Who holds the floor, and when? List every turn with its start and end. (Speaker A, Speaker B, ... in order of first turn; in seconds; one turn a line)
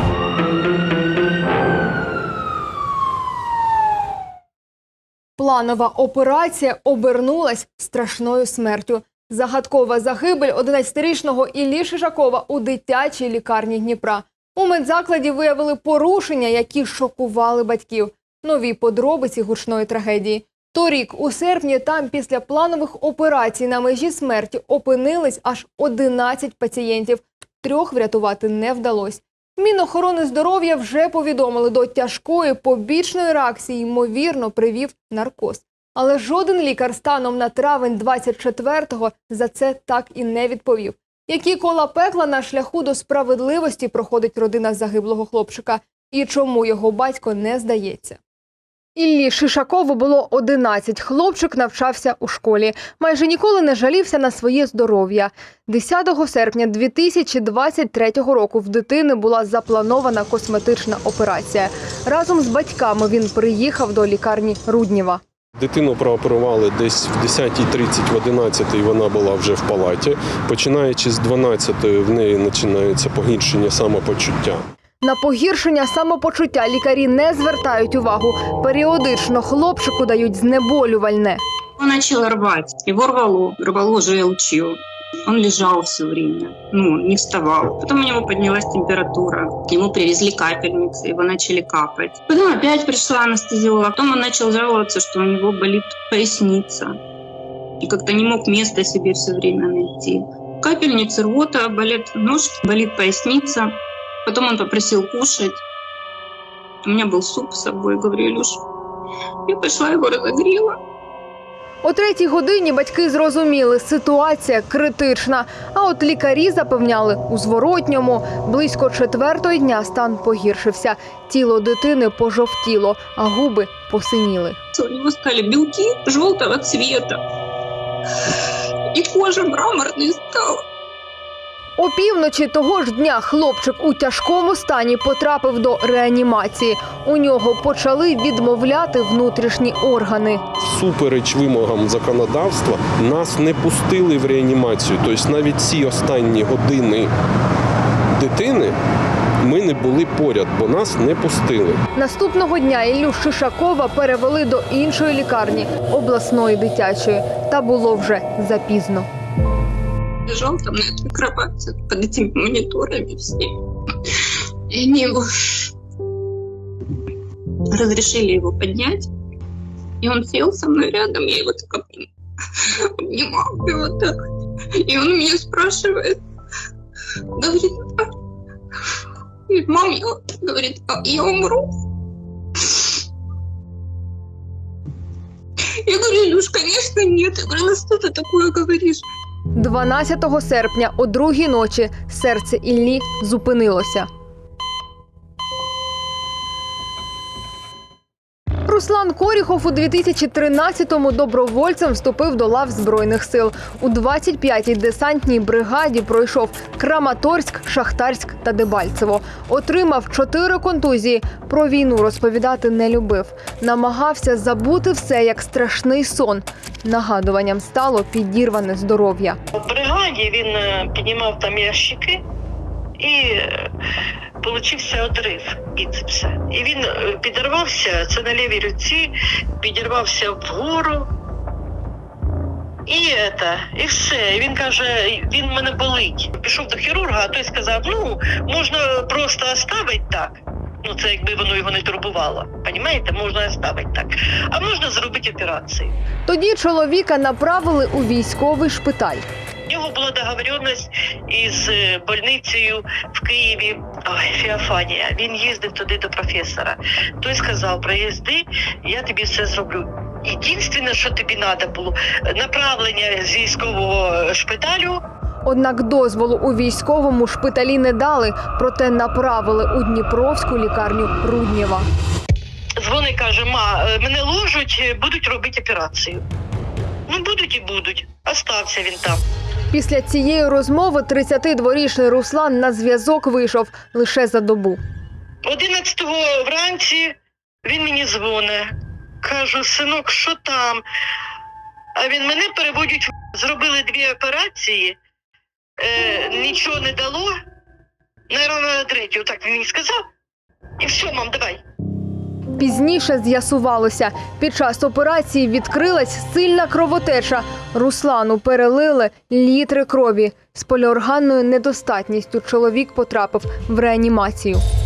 Speaker A: 5.4-48.2
Speaker A: 49.0-65.2
Speaker B: 65.6-74.6
Speaker A: 75.0-81.4
Speaker C: 81.8-84.7
Speaker C: 85.3-96.9
Speaker C: 97.8-103.7
Speaker C: 104.2-105.6
Speaker C: 106.8-108.6
Speaker C: 109.5-110.7
Speaker A: 111.8-124.6
Speaker C: 124.7-127.2
Speaker C: 128.9-130.6
Speaker A: 131.8-140.4
Speaker B: 140.6-147.1
Speaker B: 148.2-148.7
Speaker B: 149.4-151.8
Speaker A: 151.9-159.1
Speaker C: 160.3-163.5
Speaker C: 164.7-165.3
Speaker C: 167.7-169.1
Speaker C: 170.0-172.1
Speaker C: 173.1-174.1
Speaker C: 174.9-176.1
Speaker C: 177.4-177.7
Speaker C: 179.5-181.6
Speaker C: 185.9-189.0
Speaker A: 189.5-194.1
Speaker A: 198.7-219.4
Speaker D: 219.6-222.2
Speaker D: 223.0-223.7
Speaker D: 224.4-231.1
Speaker D: 232.9-245.9
Speaker A: 246.3-249.2
Speaker D: 249.7-265.0
Speaker A: 265.4-271.9
Speaker D: 272.8-276.2
Speaker D: 277.1-279.2
Speaker A: 279.7-284.8
Speaker D: 285.4-288.6
Speaker D: 289.2-290.8
Speaker D: 291.9-295.0
Speaker D: 295.8-297.3
Speaker D: 298.3-299.9
Speaker D: 300.8-301.6
Speaker A: 302.6-314.6